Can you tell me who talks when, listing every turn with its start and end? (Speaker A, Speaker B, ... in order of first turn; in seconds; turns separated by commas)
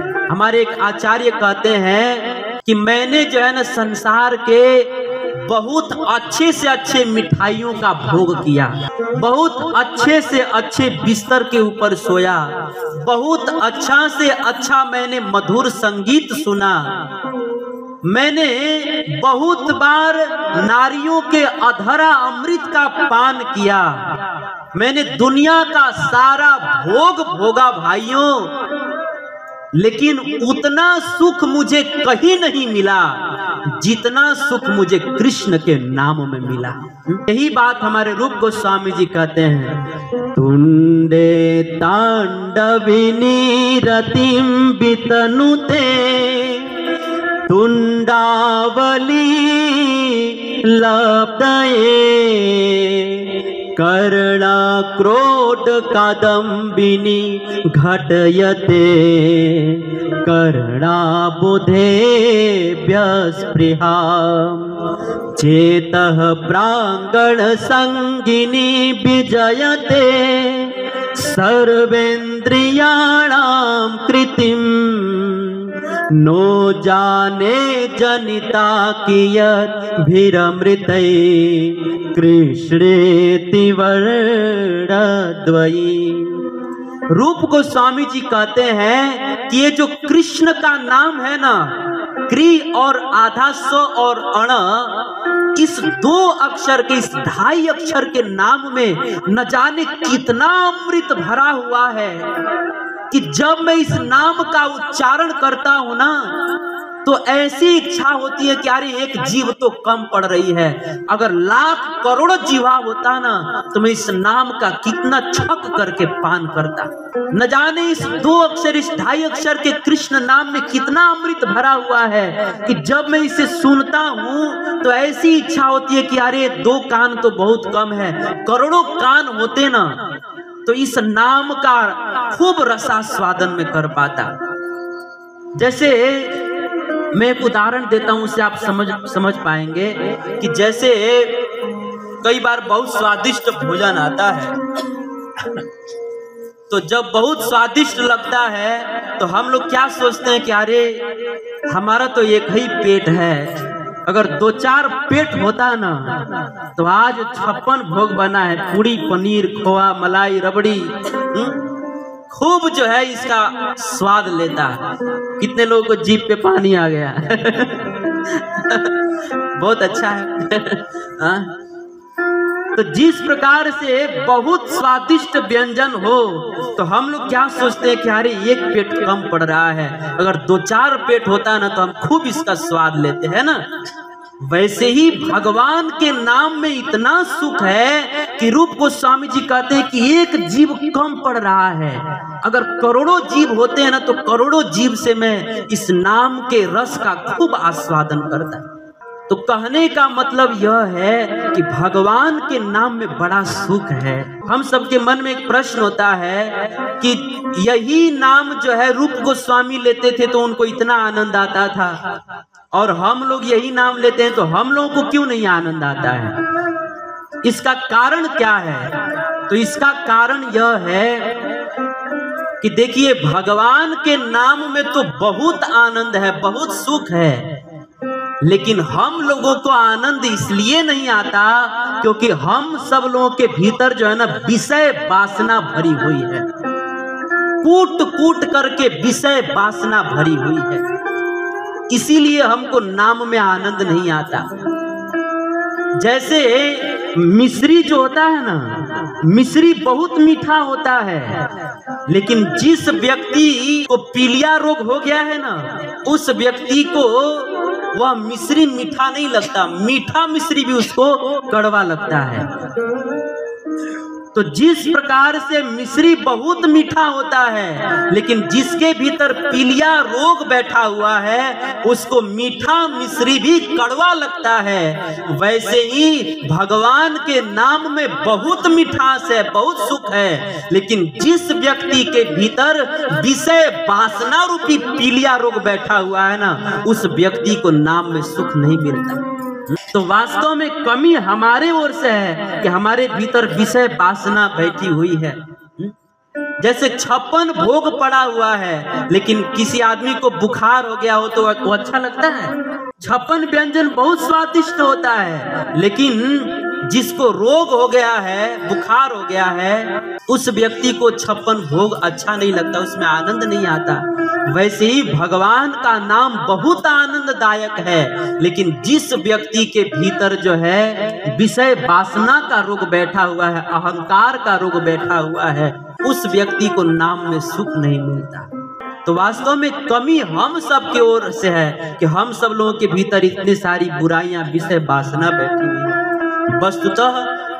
Speaker A: 0.3-16.9, Speaker A: 18.1-24.1, Speaker A: 24.7-28.6, Speaker A: 29.7-39.8, Speaker A: 40.3-46.9, Speaker A: 47.5-64.8, Speaker A: 65.3-86.5, Speaker A: 87.1-102.3, Speaker A: 103.1-106.3, Speaker A: 107.0-130.0, Speaker A: 130.7-134.3, Speaker A: 135.6-136.4, Speaker A: 137.1-141.5, Speaker A: 142.2-144.6, Speaker A: 146.7-151.1, Speaker A: 151.7-161.6, Speaker A: 162.3-164.8, Speaker A: 165.4-168.9, Speaker A: 169.6-171.5, Speaker A: 172.8-183.7, Speaker A: 184.4-198.7, Speaker A: 199.3-212.1, Speaker A: 212.7-216.4, Speaker A: 217.4-218.9, Speaker A: 219.5-221.4, Speaker A: 222.6-227.5, Speaker A: 228.4-236.5, Speaker A: 237.6-240.8, Speaker A: 241.9-244.5, Speaker A: 246.0-251.5, Speaker A: 252.1-262.5, Speaker A: 264.3-295.9, Speaker A: 296.6-328.5, Speaker A: 329.1-337.3